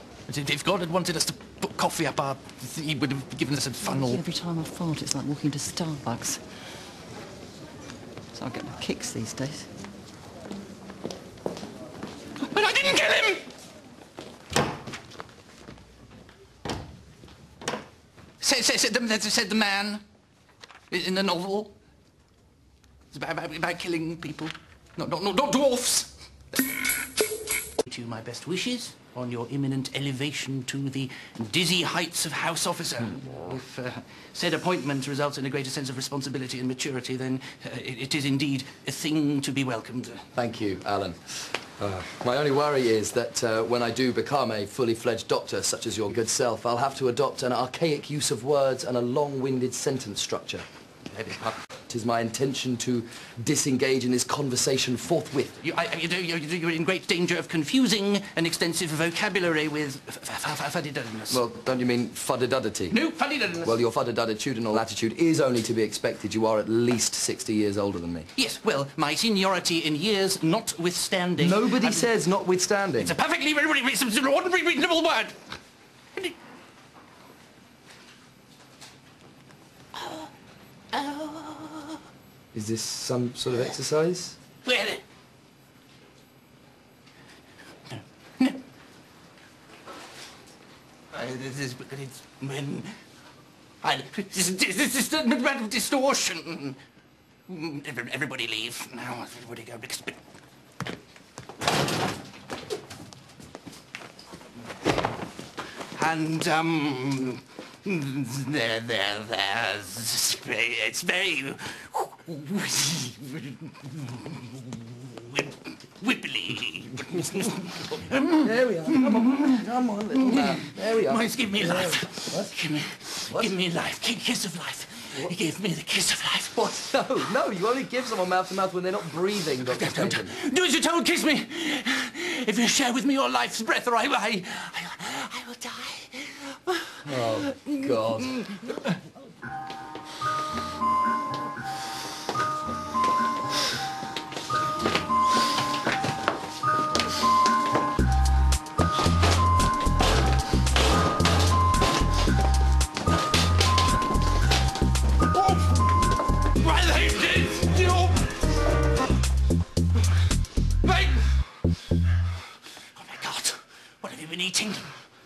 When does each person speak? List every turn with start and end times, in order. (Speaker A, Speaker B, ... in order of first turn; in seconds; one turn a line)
Speaker A: 0.3-4.3
Speaker B: 3.8-6.4
Speaker B: 8.3-9.7
Speaker A: 12.4-13.4
Speaker A: 18.4-20.0
Speaker A: 20.9-21.8
Speaker A: 23.1-26.9
Speaker A: 27.7-40.3
Speaker C: 40.4-55.6
Speaker A: 55.6-61.4
Speaker C: 61.3-63.0
Speaker A: 62.9-63.8
Speaker C: 63.6-68.3
Speaker A: 68.4-72.1
Speaker C: 71.4-73.2
Speaker A: 73.0-75.4
Speaker A: 80.9-81.8
Speaker C: 82.5-84.4
Speaker A: 84.6-85.0
Speaker A: 87.9-88.6
Speaker A: 91.1-93.0
Speaker A: 93.8-96.8
Speaker A: 97.5-100.2
Speaker A: 105.9-126.8
Speaker C: 117.2-117.6
Speaker C: 118.3-122.5
Speaker C: 123.3-123.5
Speaker C: 126.5-130.4
Speaker A: 129.6-139.0
Speaker C: 137.0-138.5
Speaker A: 155.3-155.8
Speaker A: 156.5-158.3
Speaker A: 160.8-161.4
Speaker A: 162.8-164.9